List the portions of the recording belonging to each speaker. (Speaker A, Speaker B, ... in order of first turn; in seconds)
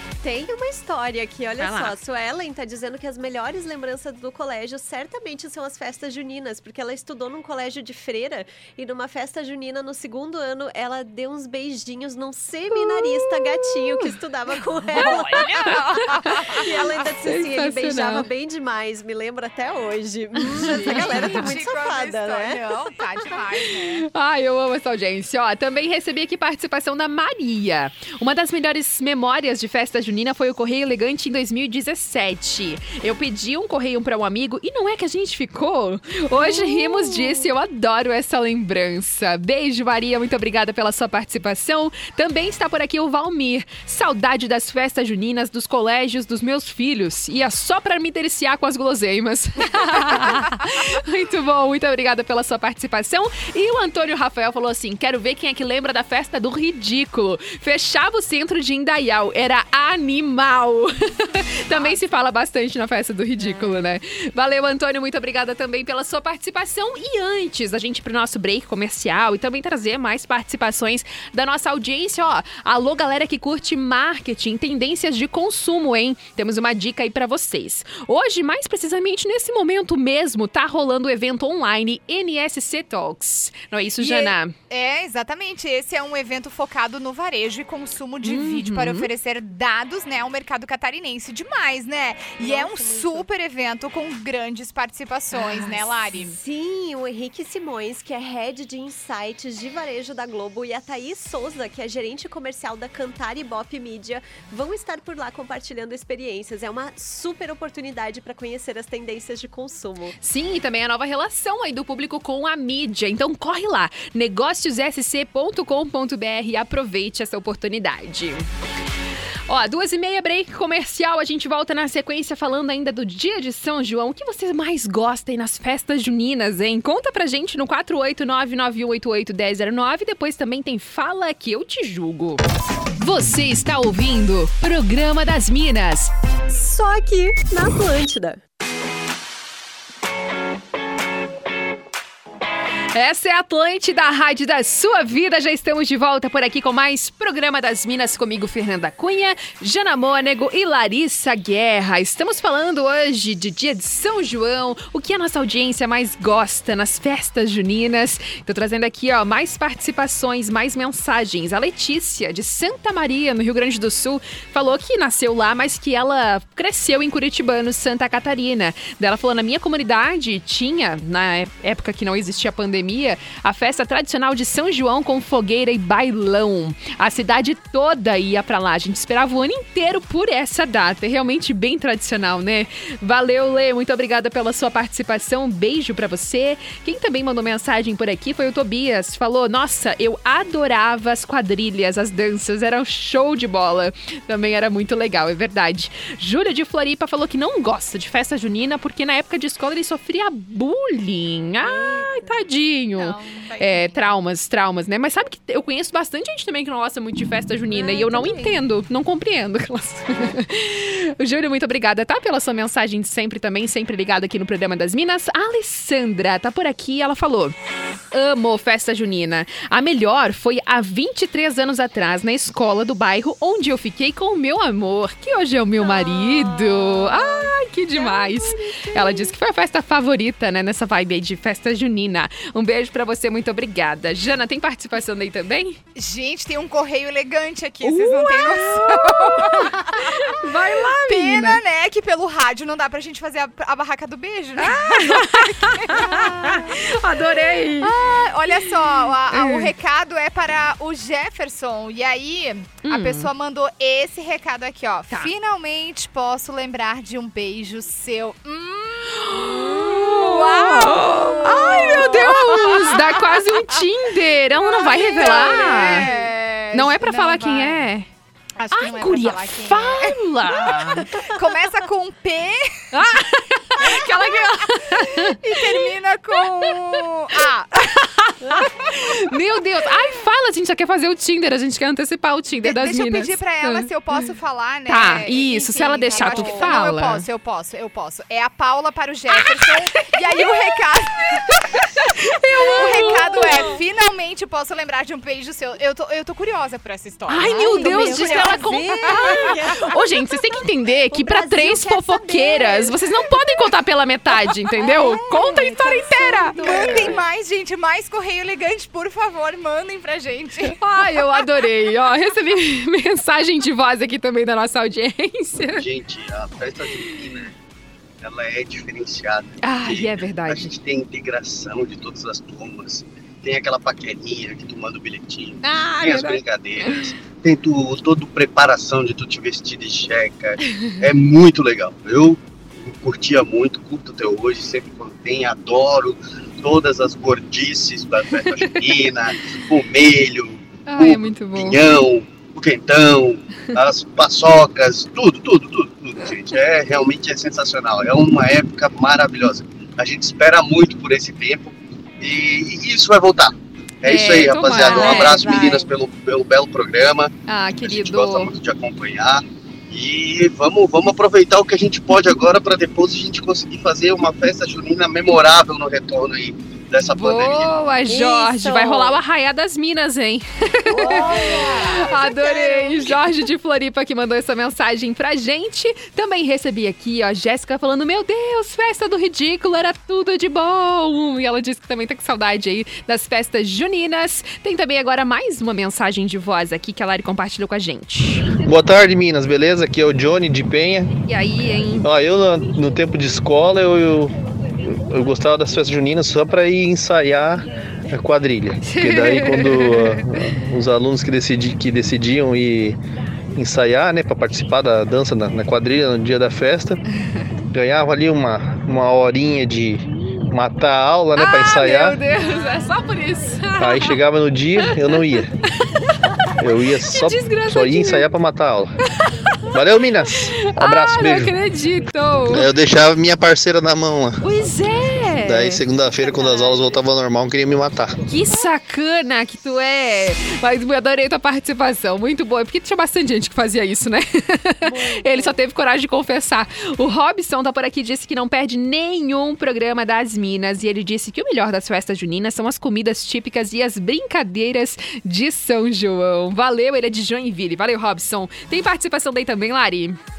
Speaker A: 0.2-23.3, 92.4-93.3, 95.5-110.2, 136.5-138.4, 201.7-202.2, 207.7-208.6, 286.2-286.6, 293.0-293.5, 297.4-299.9, 301.1-303.0, 304.8-307.2, 354.8-355.9, 368.1-369.2, 371.0-373.2, 426.2-426.9, 434.8-435.6
Speaker B: 1.6-1.9, 14.9-16.6, 17.2-18.2, 20.4-21.5, 24.0-84.5, 88.2-89.1, 95.3-95.7, 110.2-118.4, 119.5-132.4, 133.0-136.1, 142.9-217.5, 218.1-235.8, 237.8-241.6, 244.6-247.9, 249.3-249.7, 252.8-253.3, 259.2-266.1, 266.7-268.1, 268.7-271.0, 272.9-276.7, 277.3-283.9, 284.9-287.2, 289.3-290.7, 291.4-293.8, 297.3-307.2, 310.8-315.8, 319.6-320.7, 325.6-327.1, 340.9-341.8, 354.0-355.4, 357.5-358.5, 367.1-388.5, 391.3-392.1, 398.8-400.4, 411.3-414.2, 414.8-415.2, 417.1-418.3, 419.1-419.8, 420.3-422.7, 424.4-425.8, 428.2-450.2
Speaker C: 14.9-16.9, 20.5-24.0, 61.7-62.1, 63.4-63.9, 84.0-96.4, 202.9-204.1, 225.8-228.3, 235.9-240.3, 241.1-246.8, 247.8-263.8, 264.6-267.9, 268.6-273.2, 273.8-277.7, 282.6-299.6, 306.6-310.8, 370.9-372.1
Speaker D: 315.7-317.5, 318.2-367.8
Speaker E: 388.5-391.1, 392.0-394.3, 394.9-403.0, 403.5-407.0, 407.7-412.2, 413.8-415.5, 416.6-418.9, 419.7-421.5, 422.5-424.4, 425.4-428.2